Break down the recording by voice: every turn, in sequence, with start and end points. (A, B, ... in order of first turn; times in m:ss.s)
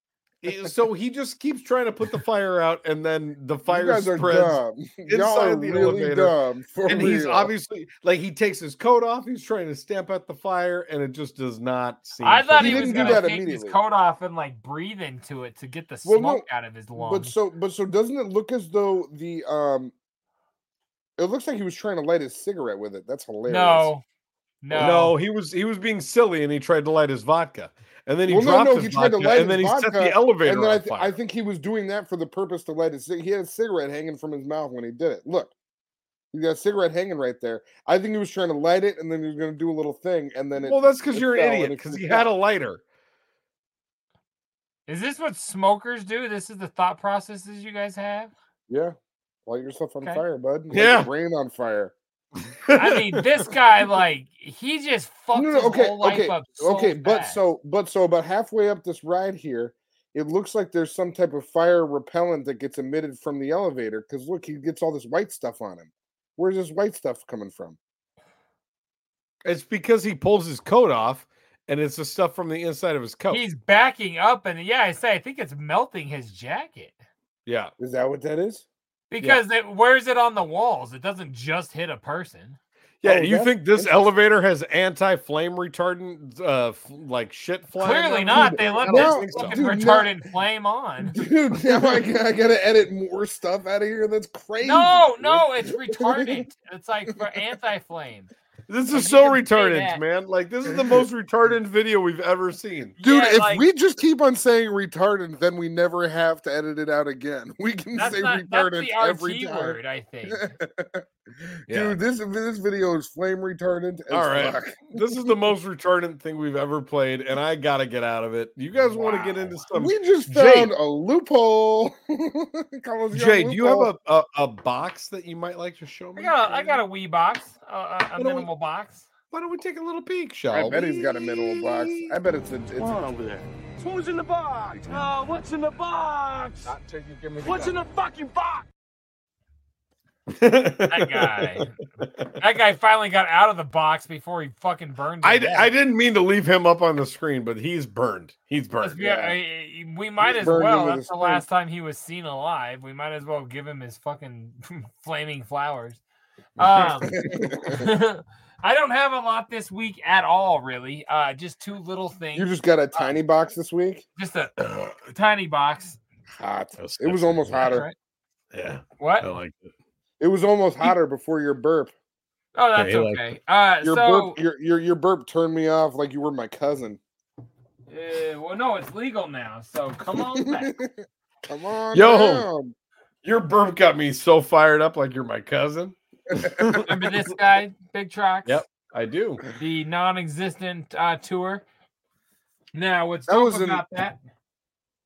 0:00.4-0:06.4 A
0:03.7-0:07.5 B
0:06.9-0:13.2 A
0:12.2-0:17.3 C
0:12.6-0:13.8 B
0:16.0-0:19.9 B
0:21.2-0:23.9 B
0:23.5-0:24.0 C
0:24.6-0:25.2 C
0:24.7-0:31.2 A
0:28.3-0:35.5 B
0:36.3-0:42.3 B
0:40.6-0:42.8 A
0:44.9-0:48.3 C
0:48.7-0:48.9 B
0:49.5-0:51.9 B
0:50.7-0:51.1 A
0:52.6-0:53.5 A
0:52.7-0:57.4 C
0:55.3-1:07.8 B
1:09.4-1:13.4 A
1:13.3-1:17.0 C
1:17.4-1:17.7 A
1:17.8-1:18.6 B
1:19.1-1:22.6 C
1:23.0-1:30.0 A
1:23.0-1:24.1 B
1:27.8-1:31.2 C
1:28.3-1:30.2 B
1:31.1-1:36.4 B
1:34.6-1:38.3 C
1:38.7-1:43.0 A
1:38.9-1:40.0 C
1:43.0-1:43.6 C
1:43.0-1:49.8 B
1:47.9-1:50.5 C
1:50.3-1:51.0 B
1:51.7-1:55.0 B
1:51.7-1:52.0 A
1:54.1-2:00.7 A
1:58.8-1:59.7 C
1:59.8-2:03.9 B
2:03.1-2:06.8 A
2:06.2-2:09.1 C
2:08.2-2:08.5 A
2:09.3-2:12.1 A
2:10.5-2:13.0 B
2:12.8-2:18.6 D
2:20.3-2:22.3 A
2:20.9-2:21.8 C
2:22.4-2:25.7 C
2:25.2-2:29.1 A
2:28.8-2:36.0 C
2:29.0-2:29.3 B
2:30.2-2:31.4 B
2:36.6-2:37.2 C
2:37.1-2:37.9 B
2:37.7-2:43.1 C
2:42.3-2:44.0 B
2:44.2-2:46.0 C
2:44.6-2:44.9 A
2:46.4-2:47.9 B
2:46.8-2:47.8 A
2:47.5-2:47.9 C
2:48.5-2:49.7 A
2:49.0-2:49.4 C
2:50.2-2:51.9 B
2:52.5-2:54.4 C
2:52.7-2:53.2 A
2:53.8-2:57.0 B
2:57.9-3:00.8 C
3:00.6-3:02.7 B
3:01.9-3:02.5 A
3:03.2-3:07.2 A
3:06.8-3:08.6 C
3:08.4-3:09.4 A
3:09.6-3:11.6 C
3:12.7-3:14.2 C
3:13.3-3:13.8 B